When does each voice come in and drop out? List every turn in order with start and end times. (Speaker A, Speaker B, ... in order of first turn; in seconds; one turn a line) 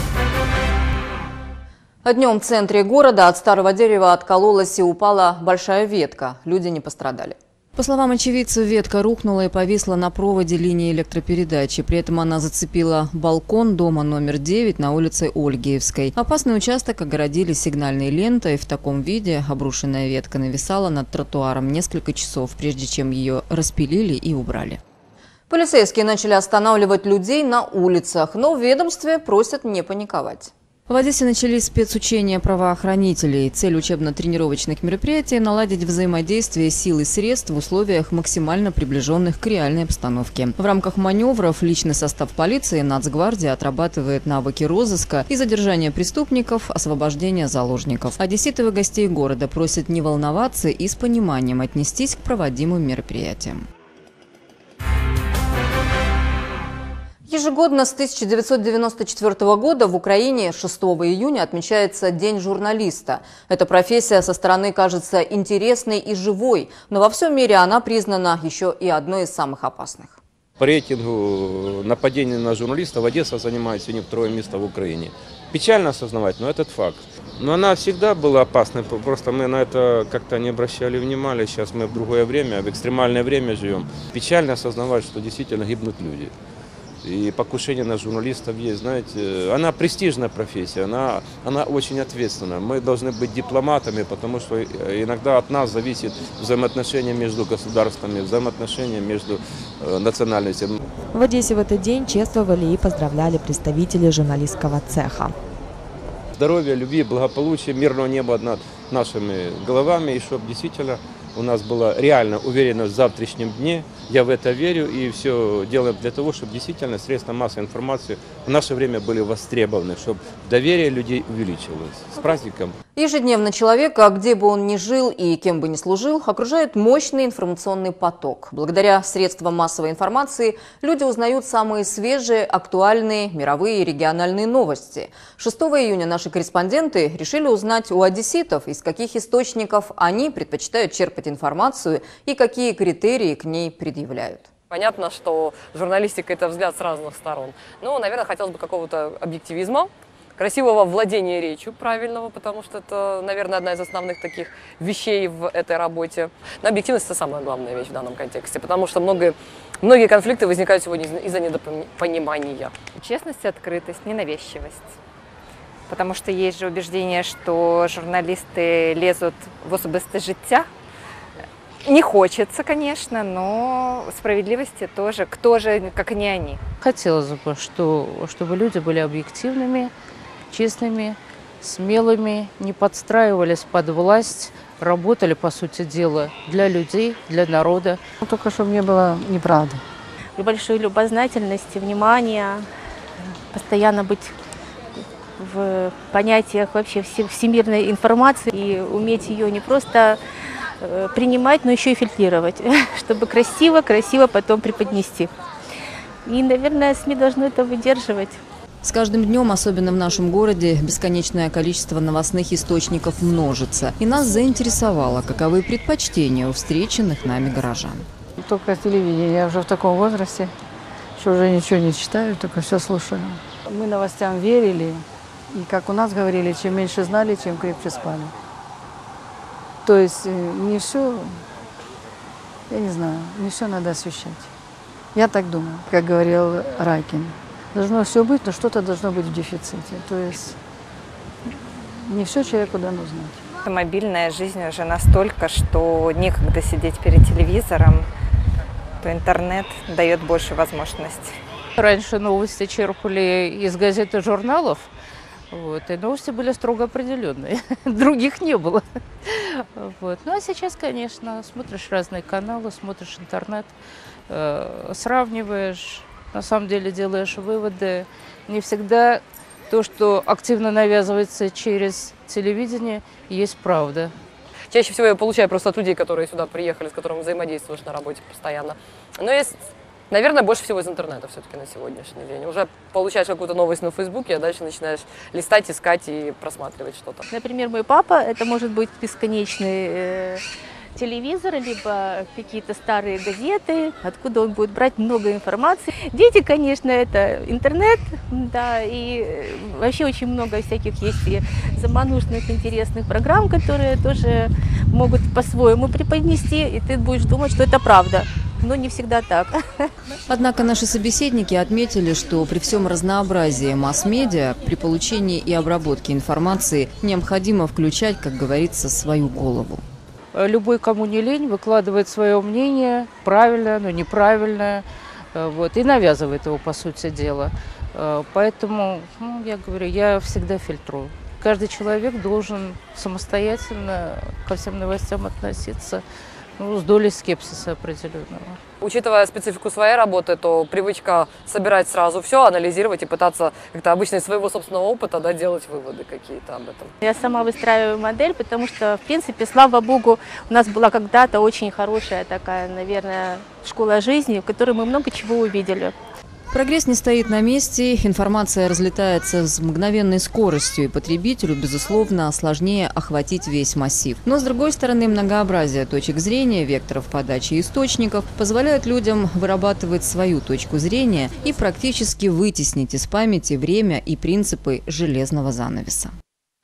Speaker A: 2.0-24.8
Speaker A: 25.5-53.7
Speaker A: 57.3-70.2
Speaker B: 70.6-86.3
Speaker B: 87.0-100.8
Speaker C: 101.1-105.3
Speaker B: 106.4-122.8
Speaker A: 123.0-144.5
Speaker D: 144.7-162.7
Speaker E: 163.0-164.9
Speaker E: 165.9-170.7
Speaker E: 171.8-176.6
Speaker F: 176.8-179.9
Speaker F: 180.5-188.0
Speaker G: 188.2-189.8
Speaker H: 190.4-192.7
Speaker H: 193.5-194.3
Speaker H: 195.4-200.2
Speaker H: 200.8-205.3
Speaker H: 206.2-208.4
Speaker A: 208.8-218.1
Speaker G: 218.4-220.5
Speaker G: 221.2-228.3
Speaker G: 229.8-231.4
Speaker G: 232.7-234.5
Speaker G: 235.1-240.6
Speaker G: 242.0-243.4
Speaker E: 243.6-248.1
Speaker E: 249.0-251.3
Speaker F: 251.8-254.9
Speaker F: 255.5-263.7
Speaker F: 264.3-274.1
Speaker D: 274.7-279.6
Speaker D: 280.1-287.2
Speaker H: 287.3-290.4
Speaker H: 290.9-309.9
Speaker A: 310.3-319.8
Speaker F: 320.3-336.0
Speaker F: 336.6-338.6
Speaker D: 338.8-346.9
Speaker H: 347.0-355.9
Speaker A: 356.5-376.1